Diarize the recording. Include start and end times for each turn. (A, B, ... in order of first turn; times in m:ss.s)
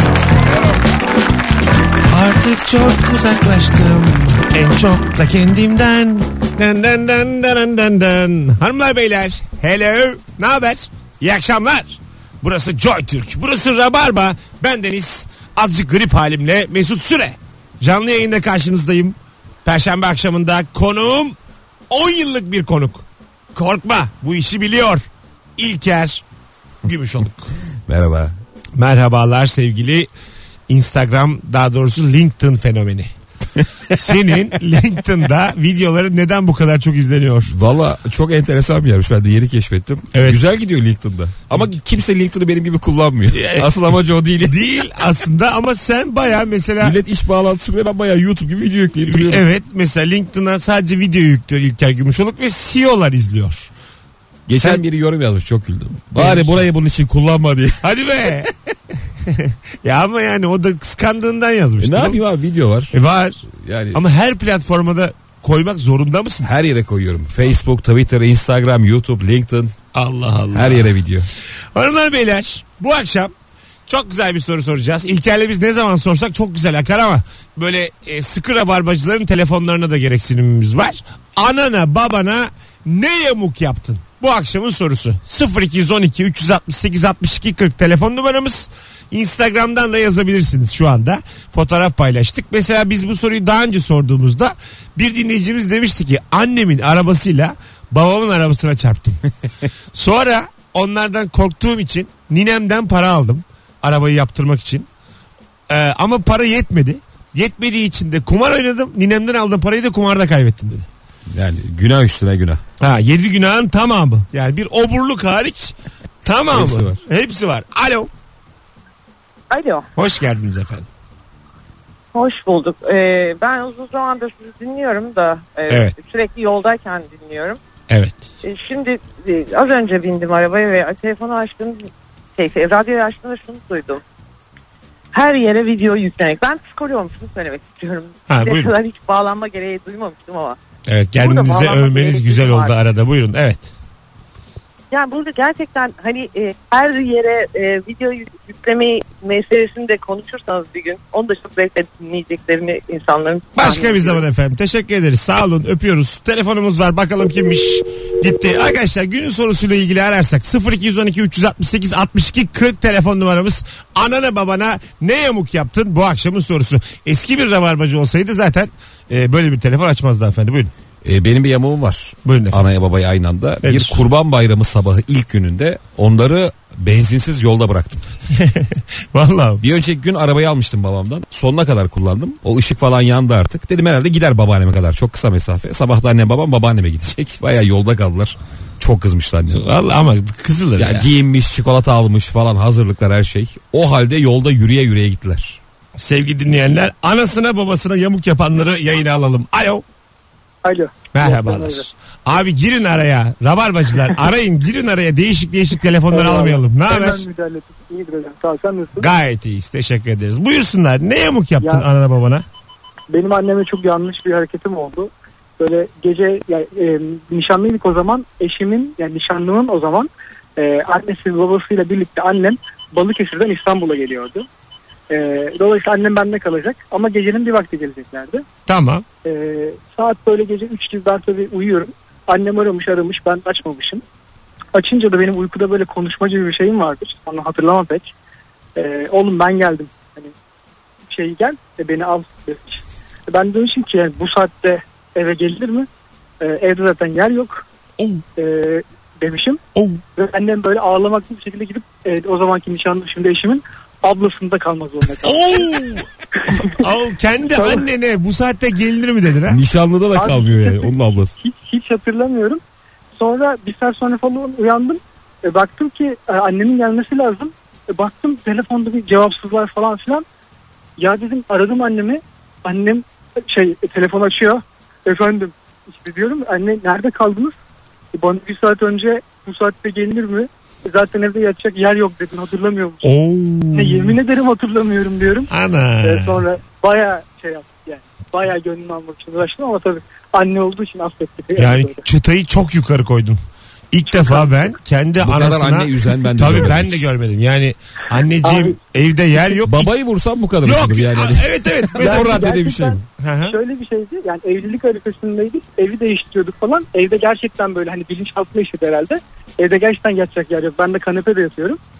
0:02.0-0:21.4 A
0:21.9-0:26.2 A
0:26.8-0:27.5 A
0:27.9-0:28.3 B
0:28.8-0:30.1 A
0:30.7-0:33.1 A
0:33.9-0:37.5 A
0:37.5-0:44.5 B
0:40.1-0:40.4 A
0:43.3-0:43.7 A
0:44.4-0:47.0 A
0:46.8-0:49.4 B
0:49.0-0:53.7 A
0:54.5-0:57.8 B
0:56.1-0:56.6 A
0:57.8-0:58.5 A
0:59.2-1:02.2 A
1:01.8-1:02.9 B
1:02.9-1:03.4 A
1:03.5-1:04.0 B
1:03.9-1:06.5 A
1:06.4-1:09.7 B
1:09.9-1:10.9 A
1:10.5-1:11.3 B
1:11.7-1:13.3 A
1:13.9-1:39.2 A
1:39.9-1:44.9 A
1:45.7-1:50.9 A
1:51.3-1:52.6 B
1:52.8-1:58.1 A
1:56.5-1:57.0 B
1:59.5-1:59.9 C
2:00.0-2:00.9 A
2:02.1-2:07.6 C
2:05.7-2:05.9 A
2:07.9-2:08.3 A
2:08.4-2:14.0 C
2:15.1-2:20.6 C
2:18.3-2:18.7 A
2:20.9-2:23.7 A
2:21.2-2:22.7 C
2:24.9-2:34.2 C
2:33.5-2:50.7 A
2:51.0-2:58.0 B
2:52.2-2:52.6 A
2:53.6-2:54.0 A
2:58.4-2:59.6 A
2:59.6-3:09.6 B
3:09.5-3:11.1 A
3:10.8-3:15.6 B
3:16.0-3:19.8 A
3:20.6-3:21.8 D
3:21.1-3:27.2 A
3:26.1-3:29.1 D
3:29.0-3:32.4 A
3:33.1-3:44.4 D
3:45.1-3:48.4 D
3:48.7-3:49.0 A
3:49.2-3:54.0 D
3:54.7-3:58.1 D
3:58.8-4:00.3 D
4:01.1-4:05.9 D
4:06.4-4:07.6 D
4:08.0-4:08.2 A
4:08.4-4:09.6 D
4:09.7-4:10.0 A
4:10.2-4:15.8 D
4:15.2-4:19.6 A
4:19.5-4:21.3 B
4:20.1-4:22.6 D
4:23.2-4:30.2 D
4:31.0-4:37.5 D
4:38.1-4:43.1 D
4:43.0-4:44.2 A
4:43.7-4:45.5 D
4:45.5-4:46.4 A
4:46.0-4:52.0 D
4:51.6-4:59.9 A
4:54.1-4:54.5 D
4:55.2-4:57.0 B
4:58.4-4:58.8 D
4:59.6-5:03.0 B
5:00.6-5:02.4 A
5:02.0-5:11.8 D
5:03.2-5:03.6 A